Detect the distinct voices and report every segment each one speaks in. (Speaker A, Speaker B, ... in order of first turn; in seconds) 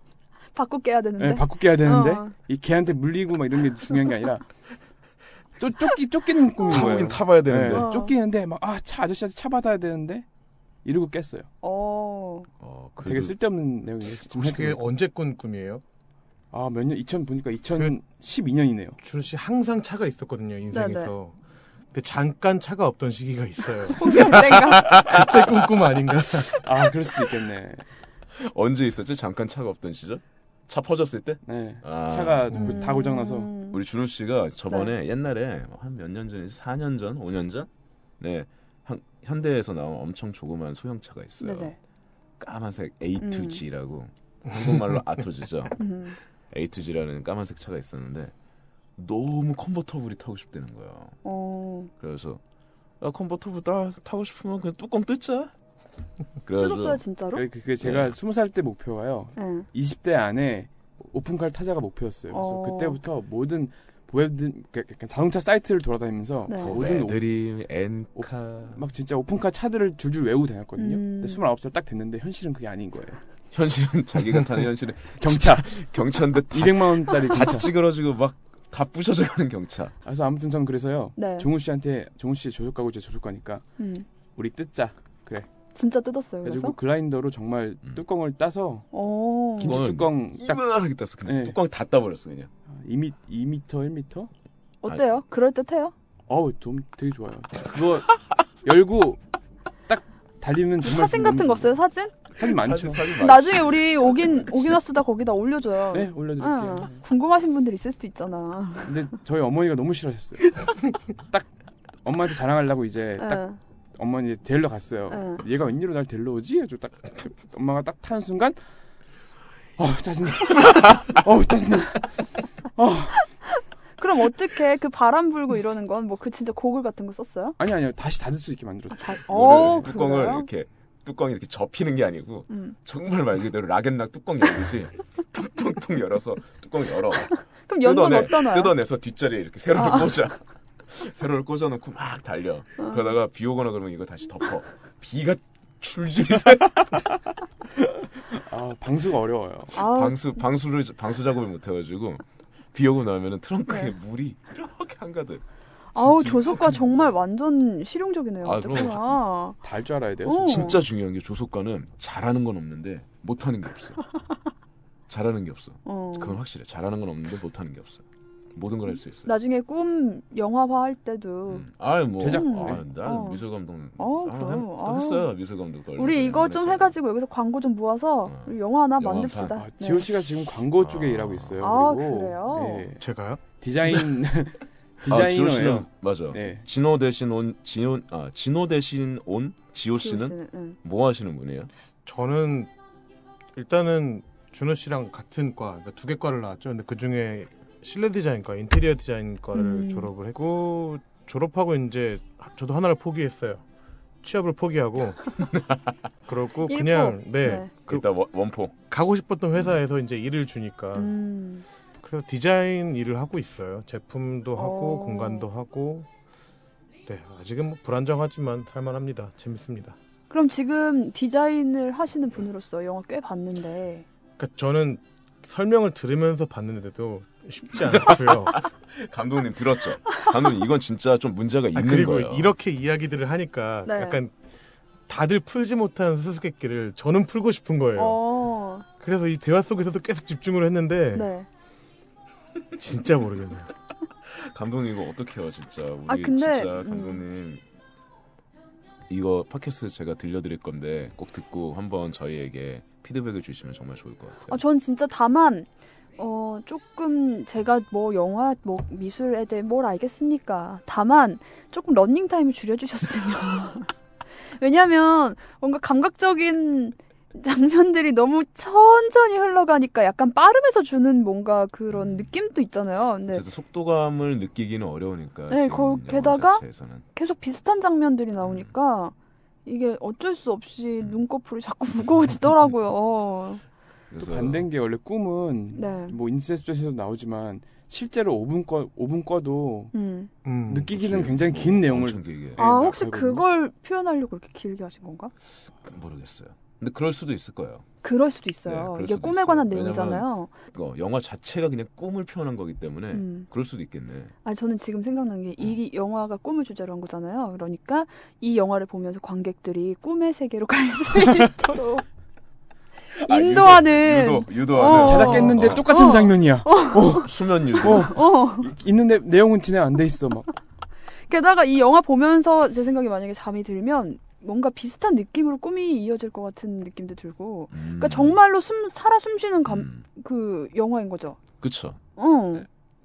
Speaker A: 0.5-2.3, 6.7-7.0, 7.7-8.1, 11.6-12.5, 20.7-21.1, 23.9-25.1, 32.5-33.8, 41.4-41.8, 43.2-43.6, 45.8-46.2, 51.2-51.9, 56.6-57.5, 59.4-59.7, 62.3-63.0, 66.5-66.8, 70.8-71.5, 81.2-81.5, 83.8-84.1, 85.8-86.8, 88.9-89.9, 94.8-95.9, 100.8-102.2, 103.2-109.0, 113.2-113.6, 115.1-115.4, 124.0-127.6, 129.0-130.5, 132.5-132.8, 137.3-138.8, 139.8-140.2, 149.7-150.2, 155.9-159.6, 160.2-160.8, 165.8-166.4, 169.3-171.7, 172.2-173.4, 174.0-175.3, 176.0-180.1, 181.6-182.9, 189.9-190.8, 199.5-200.1, 206.7-207.7, 210.9-211.7, 214.6-215.5, 220.3-224.1, 233.8-234.2, 237.9-238.9, 241.1-241.5, 246.1-247.2, 254.5-273.4, 275.5-279.1, 279.7-283.6, 285.8-286.2, 289.9-290.3, 292.6-295.3, 298.0-300.5, 303.1-303.5, 304.4-312.0, 313.2-317.3, 317.8-318.7, 321.3-331.4, 332.2-332.7
Speaker B: 1.2-4.5, 5.6-10.2, 10.8-11.5, 13.0-14.8, 16.5-19.0, 26.5-27.9, 31.5-33.5, 57.3-67.2, 68.2-73.2, 75.2-77.7, 80.0-83.7, 84.4-85.5, 86.4-88.9, 89.6-90.7, 91.2-91.6, 92.7-94.3, 96.3-99.2, 99.9-101.8, 102.4-103.2, 105.9-107.0, 108.8-111.5, 112.0-113.5, 114.0-118.6, 119.8-123.3, 127.6-129.2, 147.8-149.8, 159.6-160.8, 172.2-172.8, 179.6-183.0, 183.6-186.7, 284.2-289.9, 290.7-293.4, 311.2-311.5, 314.8-320.5
Speaker C: 6.7-7.9, 12.6-13.3, 24.2-26.4, 28.3-32.6, 33.7-37.7, 38.2-41.8, 42.4-45.9, 46.5-48.3, 49.0-51.2, 52.0-52.4, 53.0-55.5, 56.4-57.0, 57.8-58.1, 66.6-68.8, 73.5-80.0, 89.6-92.5, 102.4-104.8, 129.3-147.0, 149.7-155.4, 155.9-156.9, 158.4-159.2, 160.4-164.0, 165.1-169.3, 171.5-176.9, 178.2-179.6, 180.8-181.7, 185.1-191.7, 205.4-206.0, 207.9-208.7, 227.9-232.5, 244.2-247.6, 249.1-254.6, 271.9-272.3, 273.3-277.1, 278.4-278.7, 284.1-284.7, 290.9-292.6, 295.8-297.9, 298.6-304.3, 313.1-315.9, 317.1-318.2, 327.7-328.4, 329.7-330.0, 331.6-332.0
Speaker D: 14.2-15.8, 19.0-21.4, 21.9-26.7, 183.0-183.4, 192.1-192.7, 193.6-203.6, 204.2-205.4, 206.3-208.1, 208.9-211.2, 212.0-216.1, 217.1-220.0, 224.4-228.6, 231.8-234.3, 235.1-238.2, 239.0-241.3, 242.8-243.7, 290.4-290.9